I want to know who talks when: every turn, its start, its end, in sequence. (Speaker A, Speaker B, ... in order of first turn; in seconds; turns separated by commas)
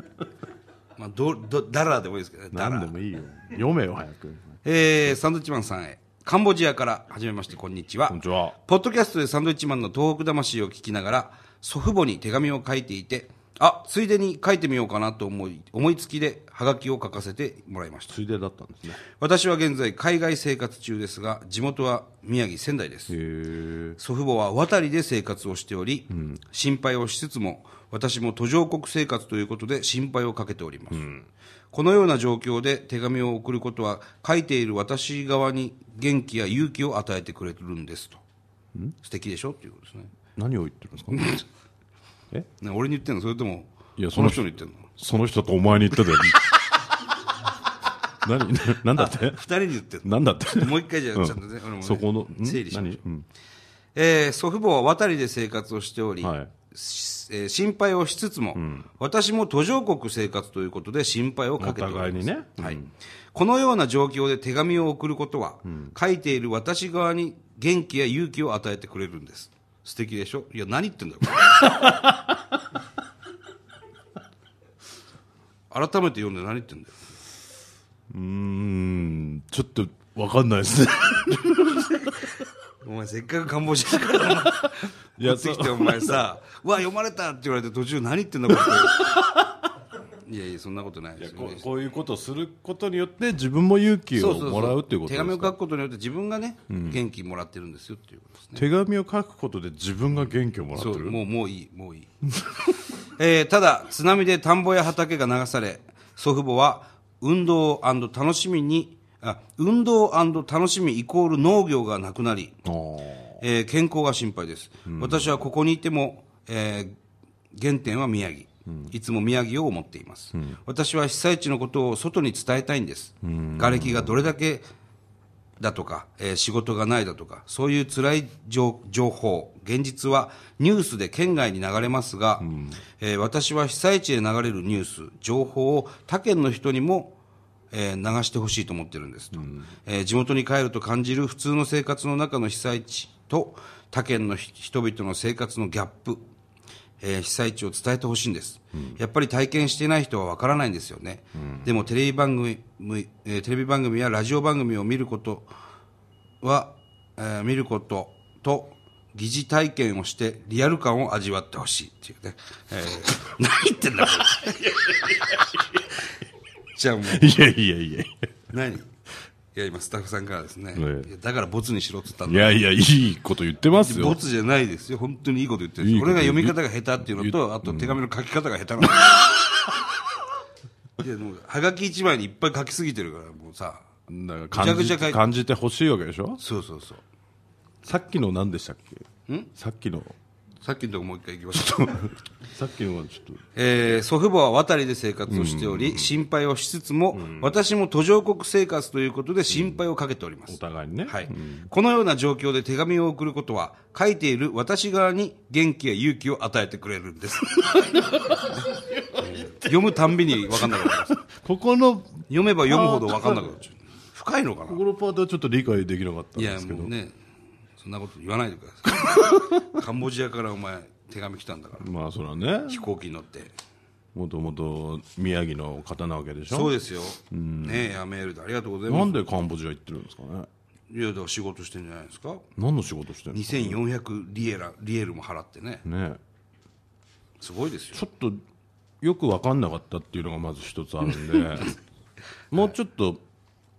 Speaker A: 1.0-2.9, Speaker B: 2.5-4.6, Speaker A: 4.7-18.2, Speaker B: 8.1-8.6, Speaker B: 18.1-19.0, Speaker A: 19.1-23.1, Speaker B: 23.1-24.0, Speaker A: 24.0-31.1, Speaker B: 26.1-26.4, Speaker B: 30.9-31.3, Speaker A: 31.7-38.2, Speaker A: 39.0-40.1, Speaker B: 40.4-41.4, Speaker A: 41.1-41.4, Speaker A: 42.6-44.9, Speaker B: 44.0-46.5, Speaker B: 48.2-49.5, Speaker A: 48.9-53.0, Speaker B: 50.0-53.3, Speaker A: 54.0-62.8, Speaker B: 56.2-56.5, Speaker B: 58.5-58.9, Speaker B: 61.6-62.9, Speaker A: 63.3-71.8, Speaker B: 65.7-65.9, Speaker B: 71.4-72.5, Speaker A: 75.7-77.0, Speaker B: 78.1-82.3, Speaker A: 82.8-89.1, Speaker B: 84.1-86.2, Speaker B: 88.5-89.5, Speaker A: 90.2-91.7, Speaker B: 91.2-95.5, Speaker A: 94.2-98.6, Speaker B: 96.7-97.0, Speaker B: 98.5-101.2, Speaker A: 100.8-102.1, Speaker A: 103.0-112.6, Speaker B: 112.7-113.4, Speaker A: 113.4-117.0, Speaker B: 114.9-115.4, Speaker A: 117.5-124.7, Speaker B: 118.7-118.9, Speaker B: 123.2-124.3, Speaker A: 125.6-137.2, Speaker B: 132.4-132.8, Speaker A: 137.7-146.2, Speaker B: 139.4-139.7, Speaker A: 147.0-155.5, Speaker B: 148.7-149.0, Speaker B: 151.3-151.7, Speaker A: 156.4-165.6, Speaker B: 164.9-165.2, Speaker A: 166.8-167.4, Speaker B: 167.1-168.3, Speaker A: 168.5-168.9, Speaker A: 169.6-172.6, Speaker B: 170.8-171.1, Speaker B: 172.3-174.2, Speaker A: 173.8-179.4, Speaker B: 175.8-178.0, Speaker A: 181.0-183.9, Speaker B: 184.1-186.4, Speaker A: 184.5-185.2, Speaker A: 186.4-187.0, Speaker B: 187.8-190.2, Speaker A: 190.6-192.2, Speaker B: 191.6-193.4, Speaker A: 193.6-207.8, Speaker B: 195.3-196.2, Speaker B: 197.1-197.6, Speaker B: 199.5-199.8, Speaker B: 200.5-201.7, Speaker B: 207.4-213.6, Speaker A: 209.2-211.2, Speaker A: 212.3-214.8, Speaker B: 214.7-216.9, Speaker A: 216.4-217.2, Speaker A: 217.8-221.9, Speaker B: 219.0-219.7, Speaker B: 221.8-222.8, Speaker A: 222.7-223.5, Speaker B: 224.2-226.7, Speaker A: 226.5-229.2, Speaker B: 227.3-227.9, Speaker B: 228.9-230.5, Speaker A: 230.9-232.5, Speaker B: 232.6-233.8, Speaker A: 233.3-235.8, Speaker B: 235.8-236.2, Speaker A: 237.4-238.0, Speaker B: 237.9-238.4, Speaker B: 239.0-241.8, Speaker B: 242.5-243.2